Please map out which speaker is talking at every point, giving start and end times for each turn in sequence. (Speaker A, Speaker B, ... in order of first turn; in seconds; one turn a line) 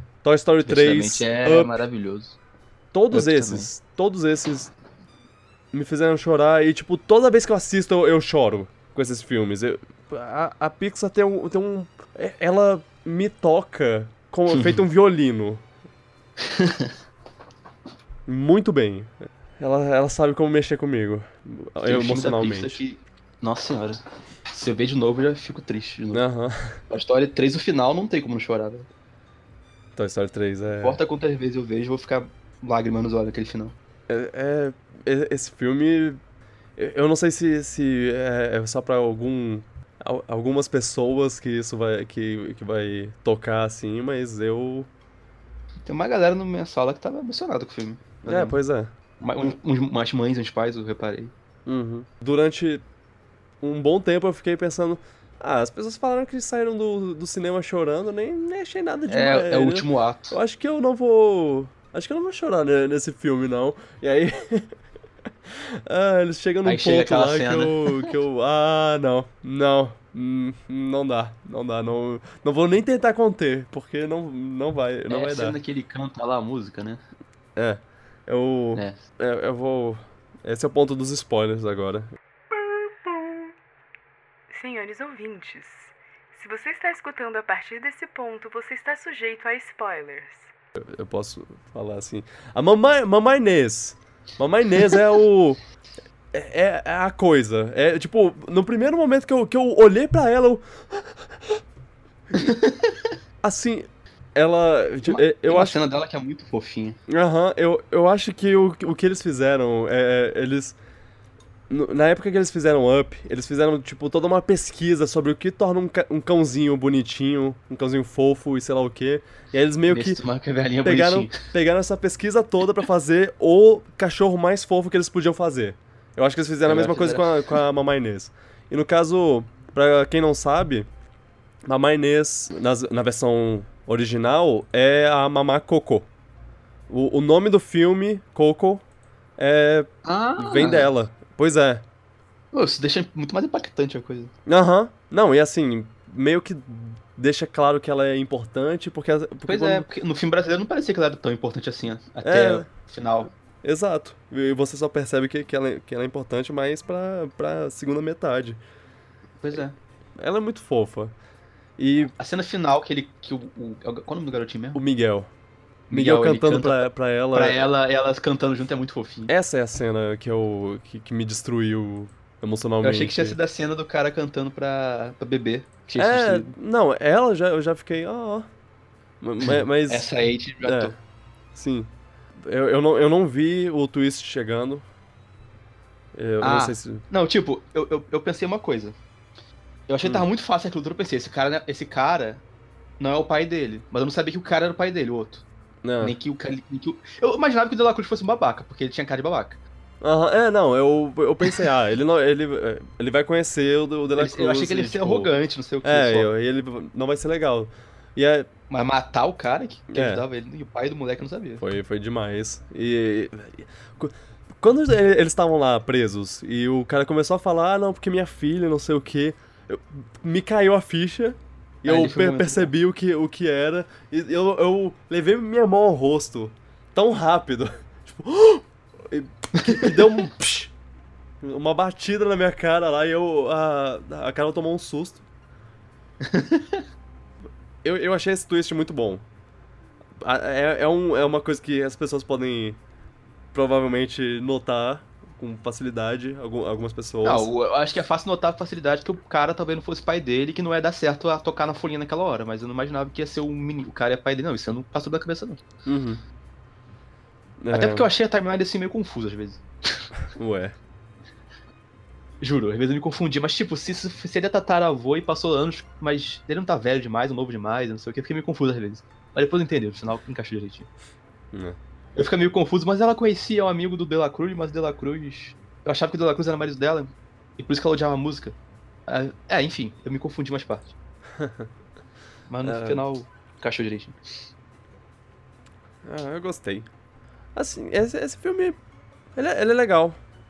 Speaker A: 0.2-1.8
Speaker B: 0.7-2.4
Speaker A: 2.9-4.7
Speaker B: 3.1-3.7
Speaker A: 5.7-15.6
Speaker B: 14.5-14.8
Speaker B: 16.4-16.9
Speaker A: 18.3-22.8
Speaker B: 21.8-26.2
Speaker A: 26.1-26.8
Speaker B: 26.9-28.9
Speaker A: 29.9-31.0
Speaker B: 30.7-33.8
Speaker A: 34.1-36.2
Speaker A: 36.8-44.9
Speaker B: 45.8-48.6
Speaker A: 48.2-48.9
Speaker B: 49.2-51.3
Speaker A: 51.6-52.8
Speaker A: 53.6-64.7
Speaker B: 59.1-60.4
Speaker A: 65.5-75.6
Speaker B: 66.6-68.1
Speaker B: 75.1-77.0
Speaker A: 77.5-82.1
Speaker B: 78.7-79.0
Speaker A: 82.7-83.5
Speaker C: 84.5-90.5
Speaker A: 90.8-95.6
Speaker A: 96.3-101.6
Speaker B: 102.3-103.1
Speaker A: 103.4-105.8
Speaker B: 105.0-107.0
Speaker A: 107.1-110.8
Speaker A: 111.7-120.2
Speaker B: 119.9-121.4
Speaker A: 120.8-130.9
Speaker B: 126.6-127.6
Speaker A: 131.6-136.1
Speaker A: 136.9-138.8
Speaker A: 139.4-141.8
Speaker B: 140.0-140.9
Speaker B: 142.5-144.3
Speaker A: 144.4-149.9
Speaker B: 149.4-153.3
Speaker A: 152.2-152.7
Speaker A: 153.6-158.6
Speaker B: 159.4-159.8
Speaker A: 160.2-161.1
Speaker A: 161.8-162.1
Speaker B: 162.2-164.8
Speaker A: 164.7-165.3
Speaker B: 165.9-169.3
Speaker A: 165.9-167.7
Speaker A: 169.3-173.4
Speaker B: 172.8-176.5
Speaker A: 176.0-178.5
Speaker A: 179.2-180.1
Speaker B: 179.4-180.9
Speaker A: 180.6-180.9
Speaker A: 181.5-184.8
Speaker A: 186.1-187.0
Speaker B: 186.4-188.9
Speaker B: 189.9-192.4
Speaker B: 193.0-195.4
Speaker A: 195.8-196.2
Speaker B: 196.0-199.6
Speaker A: 200.0-205.3
Speaker B: 204.2-206.3
Speaker A: 205.8-208.5
Speaker B: 208.7-211.6
Speaker A: 209.9-210.2
Speaker A: 211.6-230.7
Speaker B: 221.8-222.7
Speaker B: 229.6-230.3
Speaker A: 231.4-235.2
Speaker B: 236.2-236.8
Speaker A: 237.8-239.2
Speaker A: 240.2-242.8
Speaker A: 243.5-247.5
Speaker B: 247.2-255.6
Speaker A: 255.8-256.2
Speaker A: 257.6-258.1
Speaker B: 257.7-260.0
Speaker A: 260.3-260.8
Speaker B: 262.4-270.9
Speaker A: 271.5-271.8
Speaker B: 272.1-278.6
Speaker B: 279.1-280.9
Speaker A: 281.4-281.7
Speaker B: 282.5-284.2
Speaker A: 282.6-283.0
Speaker A: 286.0-286.9
Speaker A: 287.5-288.8
Speaker A: 289.3-290.2